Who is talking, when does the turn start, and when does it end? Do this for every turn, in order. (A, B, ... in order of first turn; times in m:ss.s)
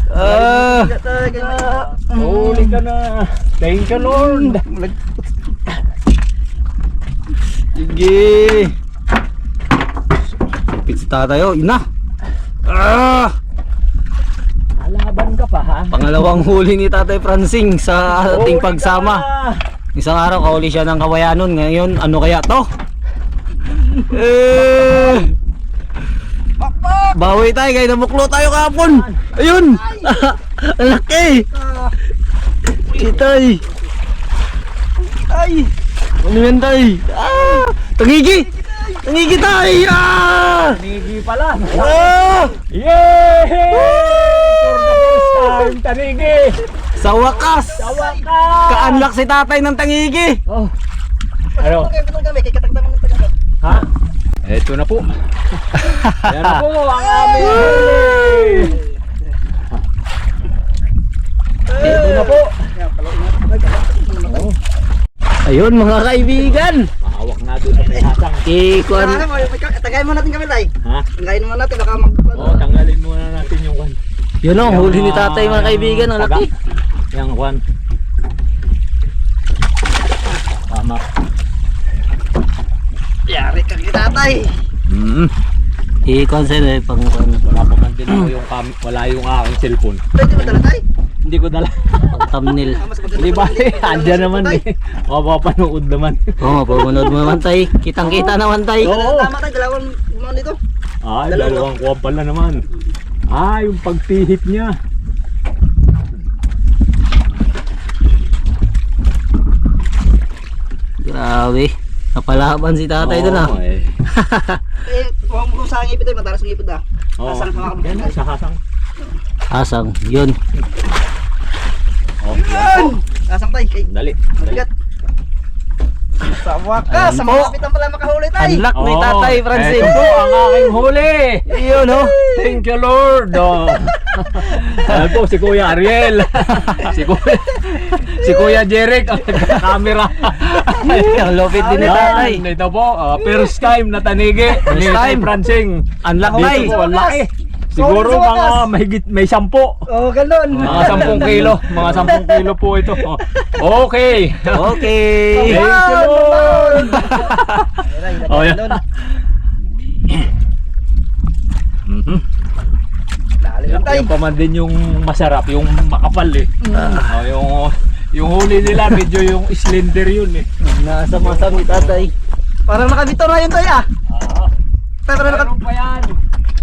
0:00.1-0:00.9 A
0:00.1-0:02.8 B
0:01.2-0:04.6 C
0:03.9-0:05.5 B
0:07.7-0:08.7 A
0:10.8-0:11.8 A
0:12.7-0:13.3 A
0:14.8-0:16.0 C
0:15.9-0:19.2 A
0:18.0-0:19.6 C
0:19.9-0:22.7 A
0:23.7-0:24.0 B
0:24.1-0:25.3 A
0:24.5-0:25.3 C
0:26.6-0:27.2 B
0:27.1-0:31.4 A
0:28.8-0:29.2 C
0:29.4-0:30.3 B
0:31.4-0:32.0 B
0:32.9-0:33.6 A
0:35.0-0:35.7 B
0:36.2-0:38.5 A
0:37.2-0:37.7 B
0:38.5-0:39.0 B
0:39.0-0:40.8 A
0:40.7-0:42.2 C
0:41.7-0:42.6 A
0:42.7-0:46.6 C
0:43.7-0:45.7 B
0:47.0-0:47.9 A
0:47.0-0:48.3 B
0:47.8-0:49.1 C
0:48.7-0:50.4 A
0:50.5-0:50.7 C
0:51.6-0:53.3 B
0:51.6-0:51.9 C
0:53.6-0:53.9 C
0:54.4-0:55.6 C
0:55.8-0:56.6 A
0:56.2-0:58.8 C
0:57.1-0:58.8 B
0:57.4-0:58.0 A
1:01.7-1:04.5 B
1:01.8-1:02.5 C
1:04.3-1:04.5 C
1:05.4-1:06.9 A
1:06.4-1:08.4 C
1:08.4-1:09.2 A
1:08.9-1:12.6 B
1:12.3-1:14.0 C
1:14.4-1:16.5 A
1:14.6-1:16.4 C
1:17.1-1:17.6 C
1:20.7-1:21.0 C
1:23.3-1:24.6 B
1:24.9-1:25.3 C
1:26.0-1:27.4 A
1:27.5-1:30.0 C
1:30.1-1:30.8 B
1:31.2-1:32.2 C
1:32.1-1:32.8 A
1:32.6-1:34.6 B
1:33.1-1:37.4 C
1:36.4-1:39.0 A
1:38.0-1:39.3 C
1:38.8-1:40.6 B
1:41.0-1:42.6 C
1:41.3-1:41.7 B
1:43.3-1:44.7 C
1:51.0-1:53.5 A
1:53.0-1:53.9 C
1:54.1-1:54.6 A
1:54.8-1:58.1 B
1:57.2-1:58.6 C
1:59.5-2:00.4 A
2:02.2-2:03.0 C
2:02.3-2:03.8 B
2:03.9-2:04.6 C
2:04.4-2:04.7 B
2:06.2-2:08.6 B
2:06.9-2:07.5 A
2:08.4-2:10.0 A
2:08.7-2:11.4 C
2:11.5-2:12.6 B
2:11.5-2:12.1 A
2:12.2-2:29.8 C
2:18.2-2:18.6 B
2:20.7-2:22.4 A
2:21.5-2:22.3 B
2:23.2-2:23.5 B
2:24.6-2:25.3 A
2:26.0-2:26.7 A
2:26.2-2:27.2 B
2:27.8-2:28.7 B
2:29.9-2:33.4 B
2:30.6-2:34.8 C
2:30.6-2:31.9 A
2:34.5-2:35.6 A
2:35.3-2:38.8 B
2:35.4-2:39.1 C
2:41.8-2:42.2 C
2:43.4-2:44.1 B
2:43.7-2:50.5 C
2:46.6-2:47.0 B
2:46.8-2:47.1 A
2:50.6-2:52.1 A
2:51.1-2:52.1 C
2:52.7-2:53.8 B
2:54.1-2:54.5 C
2:55.1-2:55.5 B
2:55.2-2:56.2 C